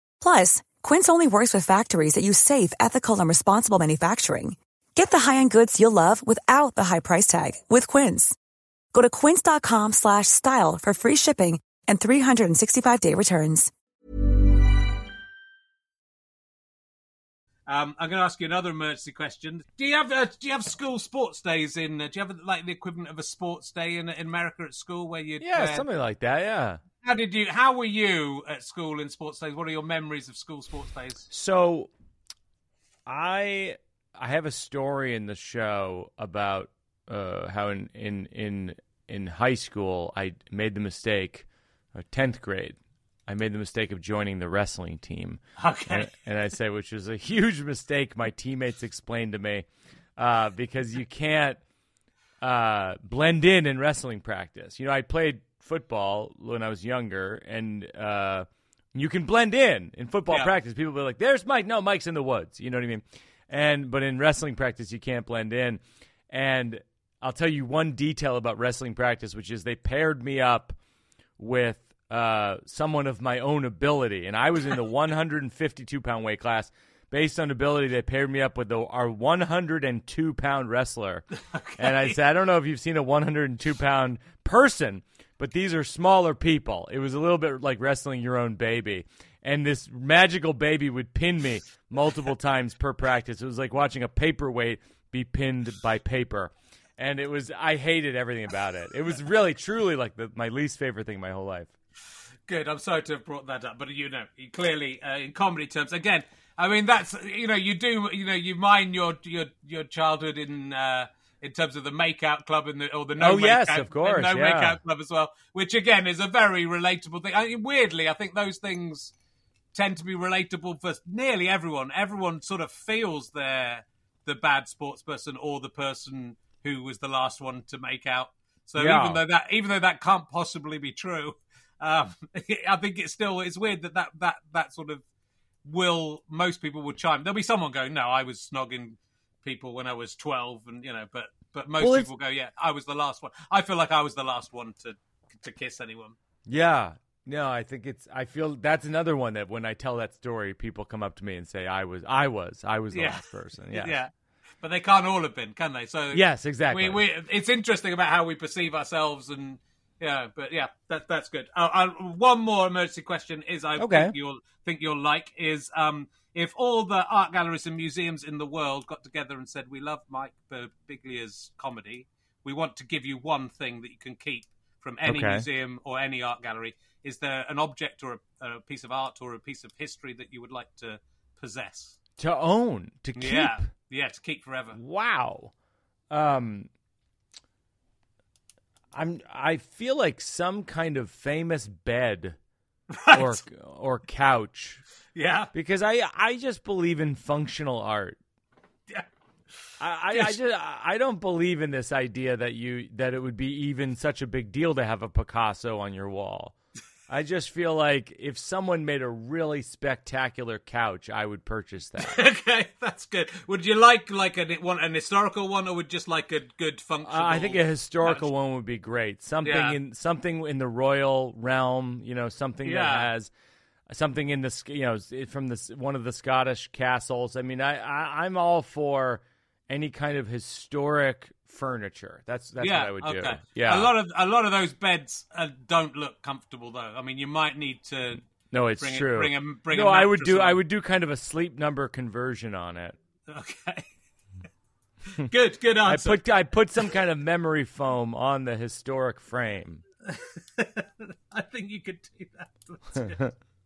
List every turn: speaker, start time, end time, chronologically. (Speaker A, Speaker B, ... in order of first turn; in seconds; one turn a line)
Speaker A: 0.2-8.3
Speaker A: 8.9-13.7
Speaker B: 17.7-25.9
Speaker C: 25.4-26.8
Speaker B: 27.0-31.3
Speaker C: 31.3-31.9
Speaker C: 33.0-49.6
Speaker B: 45.6-46.1
Speaker C: 50.2-51.6
Speaker C: 52.4-70.8
Speaker C: 71.4-81.2
Speaker B: 81.5-82.2
Speaker C: 81.8-101.7
Speaker B: 102.5-119.1
Speaker C: 113.2-114.8
Speaker B: 119.7-135.0
Speaker C: 128.8-129.2
Speaker B: 135.6-146.2
Speaker C: 141.8-142.1
Speaker C: 146.4-154.0
Speaker B: 152.9-154.1
Speaker B: 154.6-182.0
Speaker C: 156.1-157.0
Speaker C: 163.8-164.1
Speaker C: 175.1-175.4
Speaker C: 182.2-183.6
Speaker B: 183.2-184.8
Speaker C: 184.7-185.5
Speaker C: 186.1-186.7
Speaker C: 188.9-192.4
Speaker B: 192.9-193.4
Speaker C: 193.1-194.8
Speaker B: 195.1-195.5
Speaker C: 195.5-198.2
Speaker C: 199.8-206.5
Speaker B: 200.1-200.4
Speaker C: 207.1-212.2
Speaker B: 212.0-218.3
Speaker C: 217.0-223.3
Speaker B: 219.4-219.8
Speaker B: 222.6-223.1
Speaker C: 223.9-233.9
Speaker B: 232.6-238.2
Speaker C: 238.5-242.9
Speaker B: 238.8-240.6
Speaker B: 243.3-243.9
Speaker B: 245.1-246.3
Speaker C: 245.8-249.8
Speaker B: 250.1-253.3